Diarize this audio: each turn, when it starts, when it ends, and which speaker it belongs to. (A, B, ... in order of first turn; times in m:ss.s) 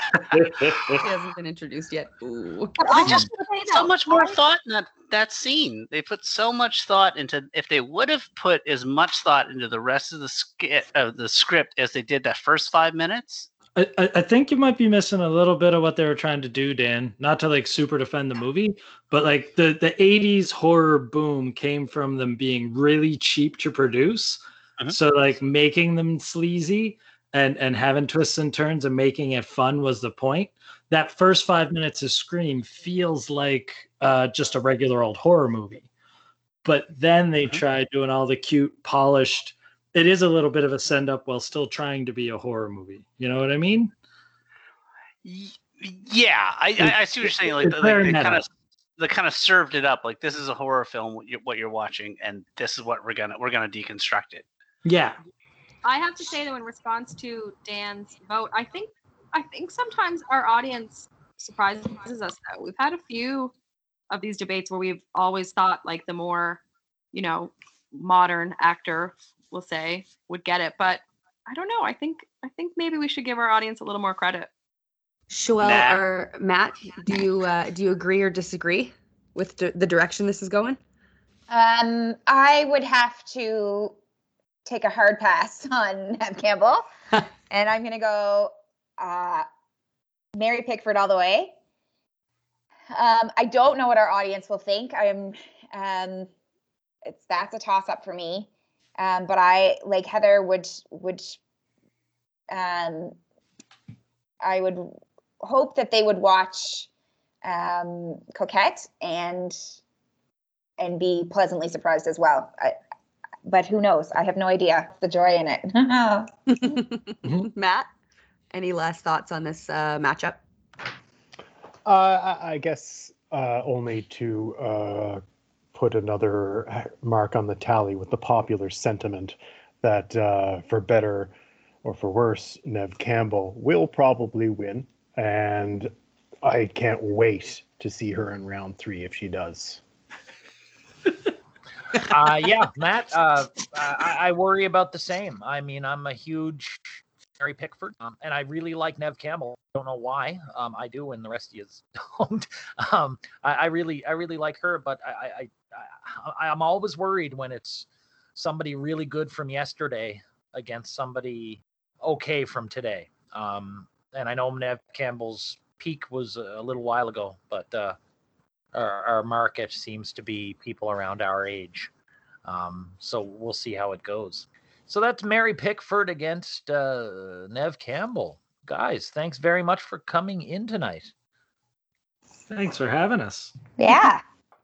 0:00.4-0:01.0 A
0:00.9-0:02.8 B
0:02.8-0:04.4 C
0:02.9-0:13.5 D
0:13.8-0:24.4 A
0:24.9-0:35.9 A
0:36.6-0:43.9 A
0:45.2-0:48.5 D
0:46.8-0:48.5 A
0:49.0-0:54.4 D
0:54.8-0:55.2 A
0:55.8-1:03.5 C
1:04.1-1:06.6 C
1:07.1-1:14.5 C
1:15.3-1:20.8 B
1:15.6-1:16.0 D
1:21.5-1:24.0 E
1:24.7-1:26.8 E
1:27.5-1:29.5 E
1:30.4-1:31.6 E
1:32.9-1:36.3 E
1:37.1-1:41.4 E
1:42.5-1:43.2 E
1:44.4-1:46.9 E
1:47.4-1:49.6 E
1:50.8-1:52.8 E
1:53.4-1:56.3 E
1:56.5-1:57.9 B
1:58.5-2:00.4 B
2:01.9-2:05.2 F
2:05.7-2:11.3 F
2:11.8-2:15.9 F
2:16.4-2:19.8 F
2:21.9-2:48.0 G
2:48.7-2:51.9 G
2:52.4-3:01.1 G
3:02.5-3:03.5 A
3:03.8-3:04.2 E